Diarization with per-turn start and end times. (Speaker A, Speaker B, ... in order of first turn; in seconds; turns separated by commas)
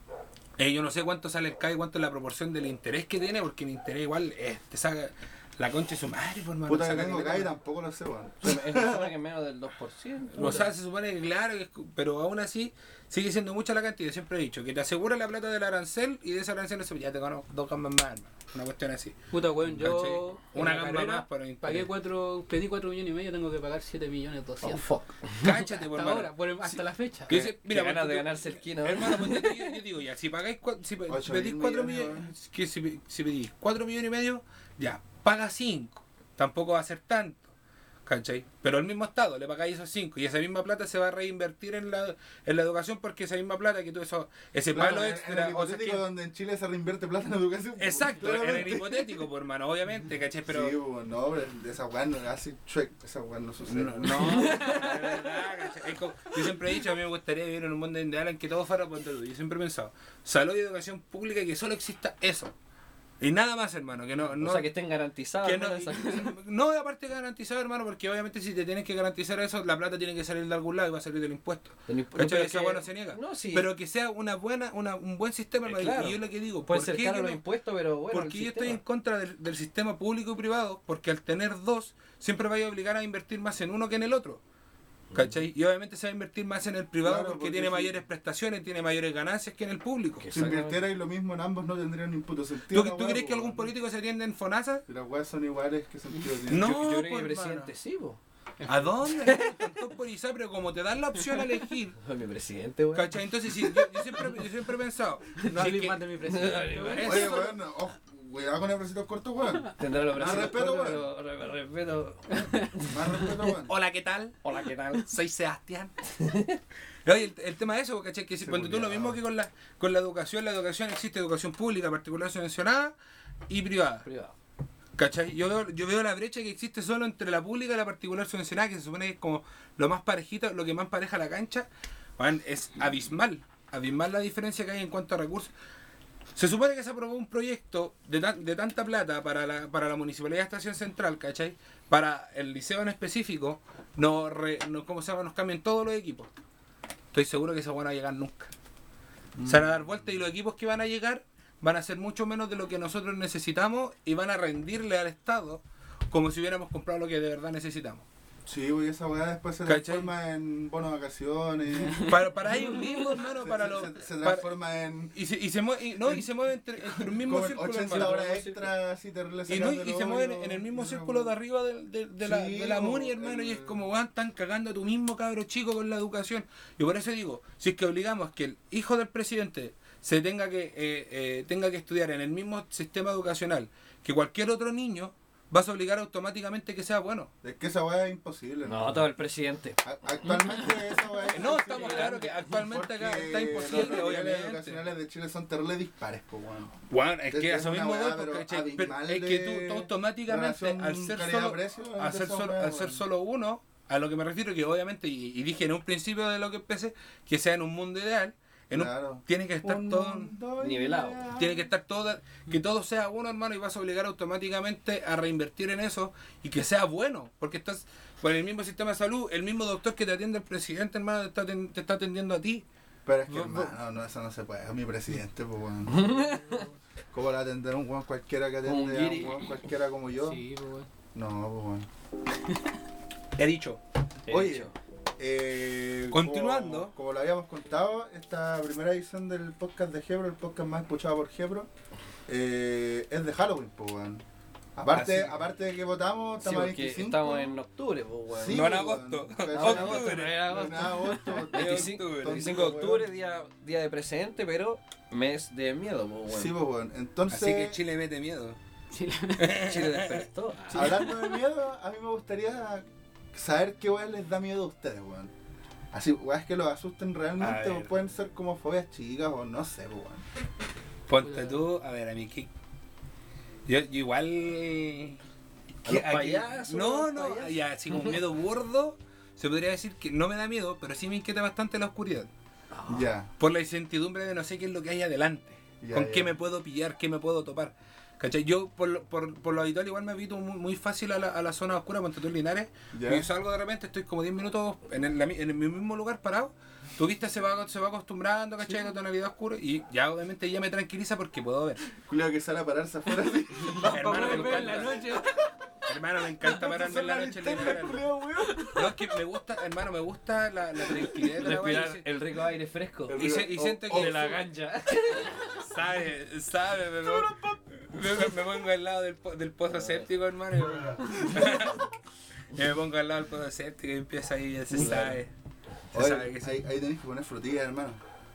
Speaker A: 0.6-7.5, Speaker B: 6.7-9.1, Speaker C: 8.4-10.7, Speaker A: 10.3-21.9, Speaker D: 19.3-25.0, Speaker C: 24.6-25.5, Speaker A: 25.4-37.5, Speaker D: 25.7-27.4, Speaker C: 27.3-29.8, Speaker B: 31.1-32.3, Speaker A: 38.0-46.0, Speaker B: 44.7-49.2, Speaker A: 47.8-50.7, Speaker B: 50.5-54.6, Speaker A: 53.6-62.5, Speaker C: 54.1-55.1, Speaker A: 63.2-64.7, Speaker C: 64.3-66.3, Speaker A: 65.4-77.4, Speaker C: 71.9-73.7, Speaker C: 75.6-78.8, Speaker A: 78.1-84.4, Speaker A: 85.1-90.3, Speaker B: 87.0-88.0, Speaker C: 90.2-90.8, Speaker B: 90.3-93.7, Speaker A: 92.7-94.8, Speaker B: 94.9-96.8, Speaker C: 96.3-98.2, Speaker A: 96.5-97.7, Speaker D: 98.6-99.0, Speaker A: 98.7-102.0, Speaker C: 99.2-99.6, Speaker C: 102.0-104.4, Speaker A: 102.9-107.5, Speaker D: 105.4-107.5, Speaker C: 106.2-107.3, Speaker B: 107.0-111.1, Speaker C: 109.8-113.0, Speaker D: 112.3-112.8, Speaker B: 112.9-113.7, Speaker A: 113.7-115.9, Speaker C: 114.4-115.0, Speaker C: 116.2-116.6, Speaker A: 117.0-122.9, Speaker B: 118.4-119.2, Speaker A: 123.5-124.1, Speaker C: 124.0-124.3, Speaker A: 125.0-135.5, Speaker A: 136.3-146.3, Speaker A: 147.1-148.5, Speaker B: 149.3-149.7, Speaker A: 149.4-158.0, Speaker B: 158.4-162.1, Speaker A: 159.7-160.1, Speaker A: 162.1-164.5, Speaker B: 163.4-165.1, Speaker A: 165.1-168.2, Speaker B: 167.2-171.3, Speaker C: 167.8-168.7, Speaker A: 169.5-187.3, Speaker B: 172.2-173.8, Speaker B: 187.4-189.1, Speaker C: 188.7-190.8, Speaker B: 189.8-203.0, Speaker A: 191.3-194.8, Speaker C: 191.7-192.4, Speaker A: 196.9-210.3, Speaker B: 208.7-211.7, Speaker C: 210.6-211.2, Speaker A: 211.4-222.6, Speaker B: 223.1-226.3, Speaker A: 223.3-223.7, Speaker C: 225.9-226.6, Speaker B: 227.1-230.4, Speaker C: 228.6-229.6, Speaker D: 230.2-230.9, Speaker B: 231.1-231.9, Speaker A: 233.3-233.8, Speaker C: 234.2-234.7, Speaker B: 234.3-241.7, Speaker A: 236.1-236.9, Speaker B: 242.3-244.2, Speaker B: 244.8-247.6, Speaker C: 244.9-245.4, Speaker C: 246.4-248.8, Speaker B: 248.3-253.1, Speaker A: 248.5-250.5, Speaker C: 249.5-256.5, Speaker D: 251.0-251.4, Speaker A: 251.5-252.6, Speaker B: 256.3-257.7, Speaker A: 257.3-258.6, Speaker D: 258.9-259.6, Speaker A: 259.4-260.3, Speaker C: 259.6-261.1, Speaker B: 260.7-265.3, Speaker B: 265.9-270.2, Speaker A: 267.4-267.9, Speaker A: 271.1-272.5, Speaker D: 271.2-271.6, Speaker A: 273.6-275.2, Speaker C: 275.8-278.2, Speaker A: 275.8-282.3, Speaker C: 282.7-283.1, Speaker B: 282.9-283.3, Speaker A: 283.4-301.9, Speaker B: 285.8-286.3, Speaker B: 292.9-293.3, Speaker B: 302.0-305.3, Speaker A: 303.8-305.0, Speaker D: 303.9-305.4, Speaker A: 305.8-308.0, Speaker B: 306.4-308.7, Speaker D: 308.4-308.8, Speaker A: 308.7-312.0, Speaker C: 310.9-313.2, Speaker B: 313.1-314.4, Speaker A: 313.1-314.3, Speaker C: 313.9-315.6, Speaker A: 315.5-321.9, Speaker B: 317.0-318.3, Speaker C: 319.7-320.1, Speaker B: 320.9-321.8, Speaker A: 322.5-325.3, Speaker C: 324.7-325.1, Speaker B: 324.7-325.2, Speaker A: 325.9-326.5, Speaker B: 325.9-328.0